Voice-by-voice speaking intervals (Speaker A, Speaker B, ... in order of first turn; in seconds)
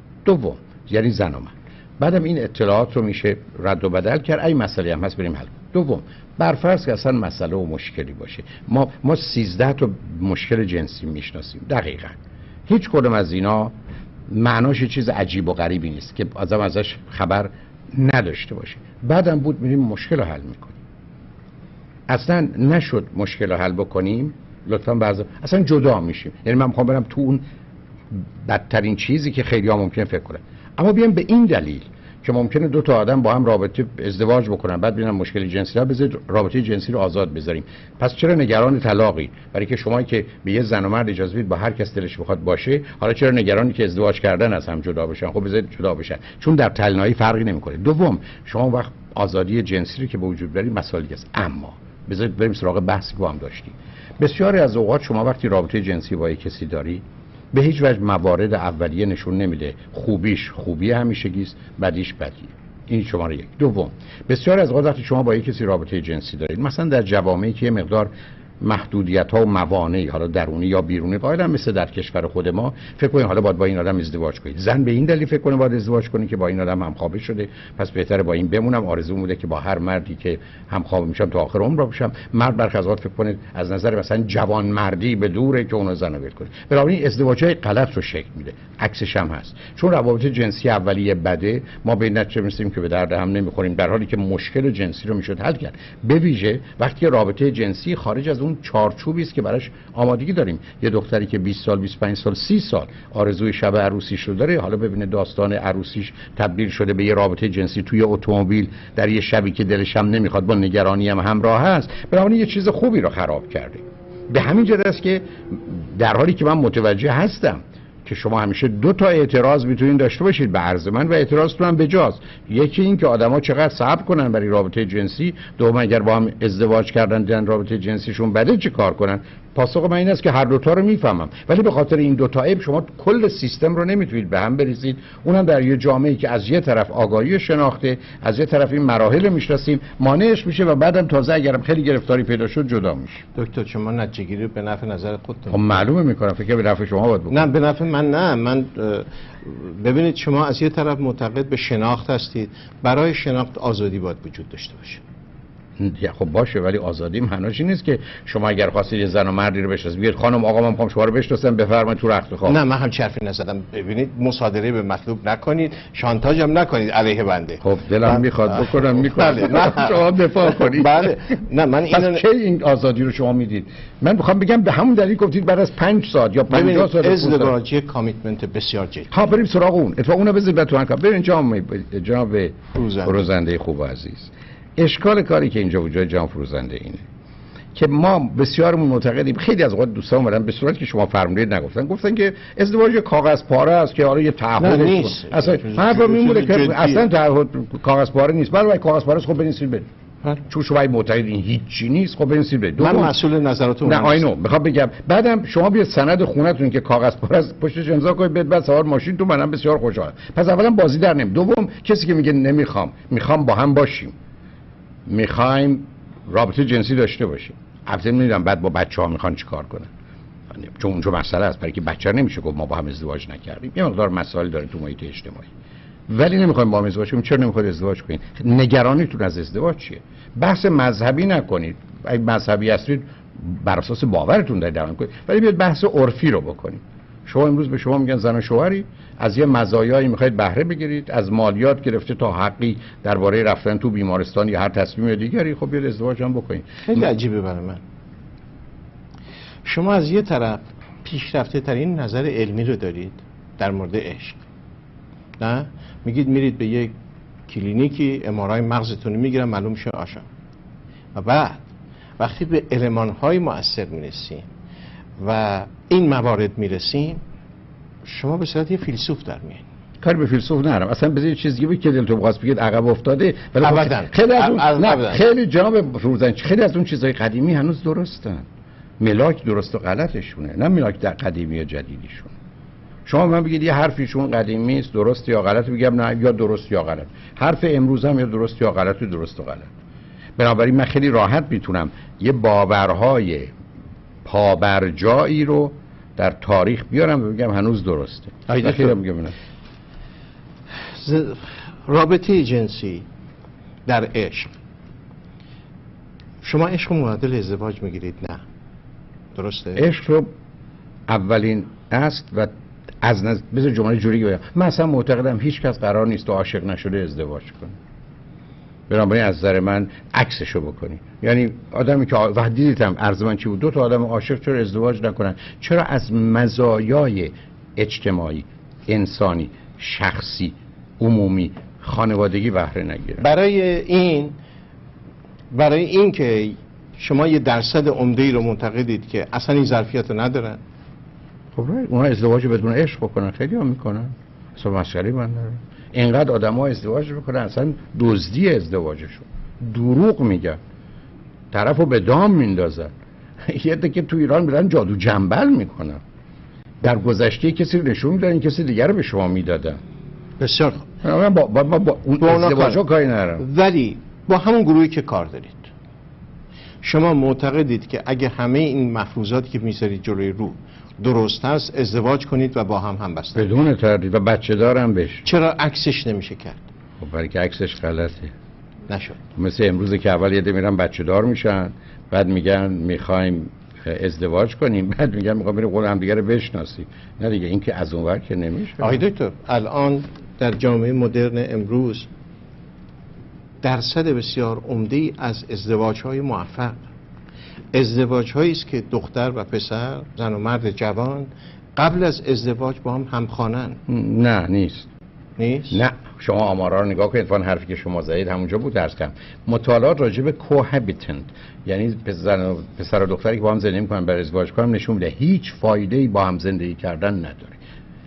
Speaker A: 0.2-13.7, 14.3-20.8, 22.1-27.4, 28.1-68.1, 68.6-143.2, 145.5-147.4, 155.8-162.6, 167.6-171.1, 171.9-177.5, 179.1-187.1, 187.7-199.9, 200.4-203.1, 203.8-214.1, 215.1-219.9, 220.5-225.5, 226.1-247.1, 270.0-278.4, 279.0-282.3, 283.1-289.7, 290.4-293.5, 294.2-299.3, 309.8-310.3, 311.1-312.5, 313.0-317.8, 318.9-333.2, 341.6-350.6, 351.5-352.9, 353.5-356.0, 356.8-359.8, 361.0-363.4, 373.3-375.2, 377.0-378.3, 379.3-389.0, 403.9-404.9, 405.7-417.6
Speaker B: 143.3-145.9, 147.3-155.0, 162.4-172.2, 176.5-179.1, 182.7-183.3, 194.6-197.1, 202.8-204.2, 246.9-247.8, 249.6-254.4, 255.4-256.9, 257.5-260.2, 261.1-261.6, 262.2-264.5, 265.2-267.2, 268.0-269.6, 273.6-275.2, 298.5-299.0, 300.9-303.1, 303.9-304.6, 306.4-308.4, 309.3-309.9, 333.2-334.4, 335.5-340.6, 360.4-360.9, 362.2-362.8, 363.4-365.7, 366.8-373.5, 375.2-376.6, 378.9-379.2, 388.8-392.1, 393.6-396.8, 397.7-403.8, 405.4-405.8